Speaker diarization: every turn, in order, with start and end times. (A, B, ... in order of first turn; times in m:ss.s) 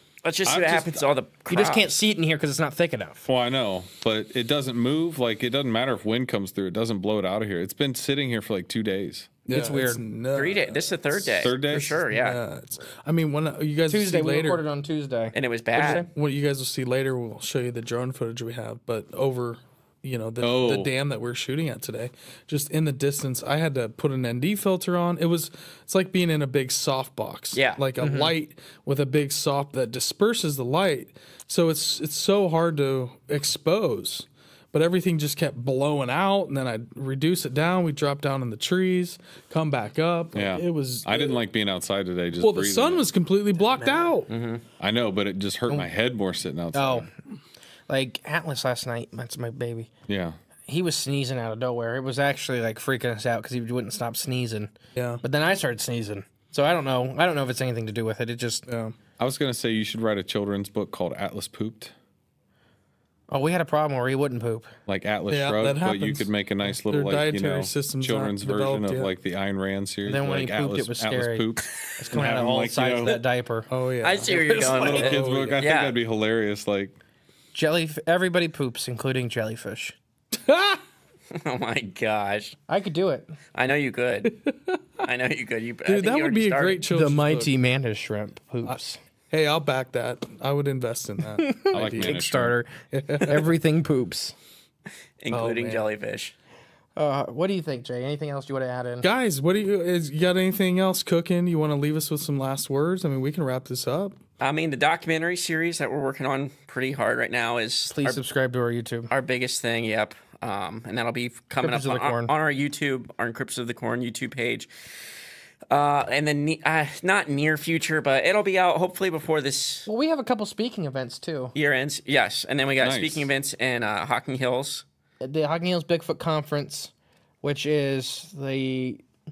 0:00.2-0:01.9 A
0:00.5-0:01.1 B
0:01.5-0:03.3 C
0:03.3-0:09.3 B
0:09.5-0:14.6 D
0:09.5-0:10.0 C
0:10.3-0:12.4 A
0:11.4-0:12.0 B
0:13.9-0:16.1 C
0:15.3-0:16.0 A
0:15.8-0:41.4 D
0:20.4-0:20.9 B
0:27.5-0:27.8 A
0:28.0-0:28.3 C
0:40.3-0:43.1 B
0:42.4-0:44.3 D
0:43.8-0:44.6 A
0:44.8-0:47.1 B
0:46.7-0:47.1 C
0:47.9-0:49.9 C
0:50.1-0:50.4 B
0:50.7-0:58.7 C
0:55.0-0:55.2 D
0:58.7-0:59.0 D
0:59.2-1:01.9 B
1:03.3-1:04.7 C
1:04.9-1:13.2 B
1:05.3-1:09.1 D
1:10.0-1:13.7 C
1:13.7-1:15.6 D
1:14.0-1:16.0 A
1:14.6-1:17.0 B
1:17.5-1:20.0 C
1:20.3-1:20.8 D
1:21.3-1:22.6 A
1:22.7-1:23.4 C
1:23.5-1:24.3 A
1:24.2-1:24.8 D
1:25.0-1:26.9 A
1:25.8-1:27.5 D
1:26.9-1:29.0 C
1:28.6-1:32.3 D
1:31.4-1:34.4 C
1:31.7-1:32.6 B
1:32.9-1:33.5 D
1:35.2-1:36.3 A
1:35.3-1:35.8 D
1:37.0-1:39.1 C
1:39.0-1:44.2 D
1:44.4-1:48.2 A
1:47.9-1:49.1 C
1:49.1-1:54.7 A
1:51.6-1:52.3 C
1:55.7-1:59.9 A
1:59.9-2:01.5 C
2:01.6-2:04.8 A
2:02.8-2:03.3 B
2:05.2-2:09.0 C